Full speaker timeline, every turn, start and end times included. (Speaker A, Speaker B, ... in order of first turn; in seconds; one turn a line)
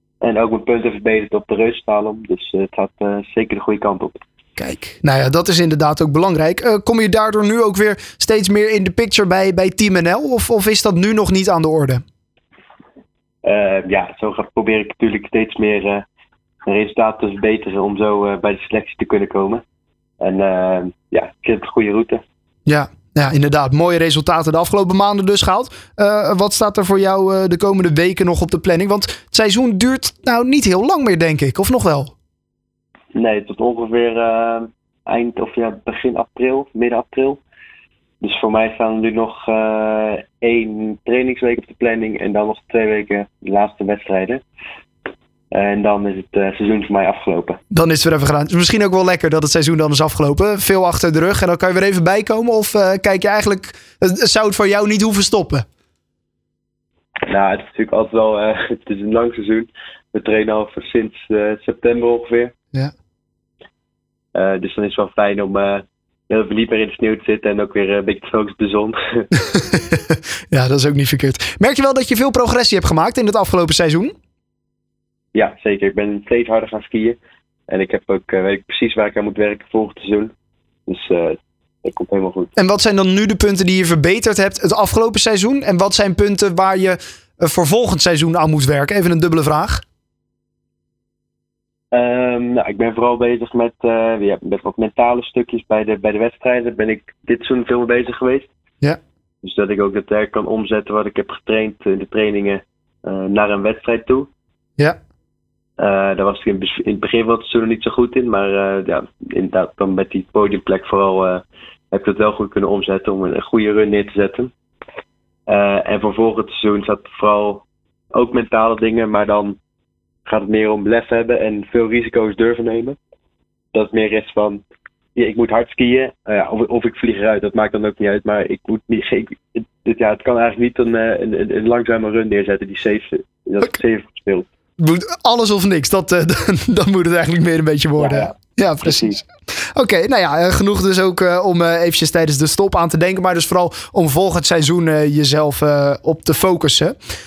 Speaker A: 0.2-4.2
Speaker B: 4.6-12.0
Speaker A: 13.4-16.0
Speaker A: 16.7-19.6
Speaker A: 20.2-22.2
Speaker B: 22.7-32.1
Speaker A: 33.1-37.4
Speaker A: 38.2-44.4
Speaker A: 45.5-47.6
Speaker B: 47.7-55.6
Speaker A: 57.3-62.5
Speaker A: 64.3-69.3
Speaker B: 69.6-70.0
Speaker B: 70.5-74.1
Speaker A: 75.3-80.3
Speaker A: 80.9-82.5
Speaker B: 82.6-89.8
Speaker A: 91.9-98.5
Speaker A: 99.4-104.3
Speaker A: 105.8-114.5
Speaker A: 115.5-119.6
Speaker A: 120.2-123.0
Speaker A: 123.7-124.6
Speaker A: 125.2-134.5
Speaker B: 134.8-147.0
Speaker A: 138.0-138.3
Speaker A: 138.8-139.2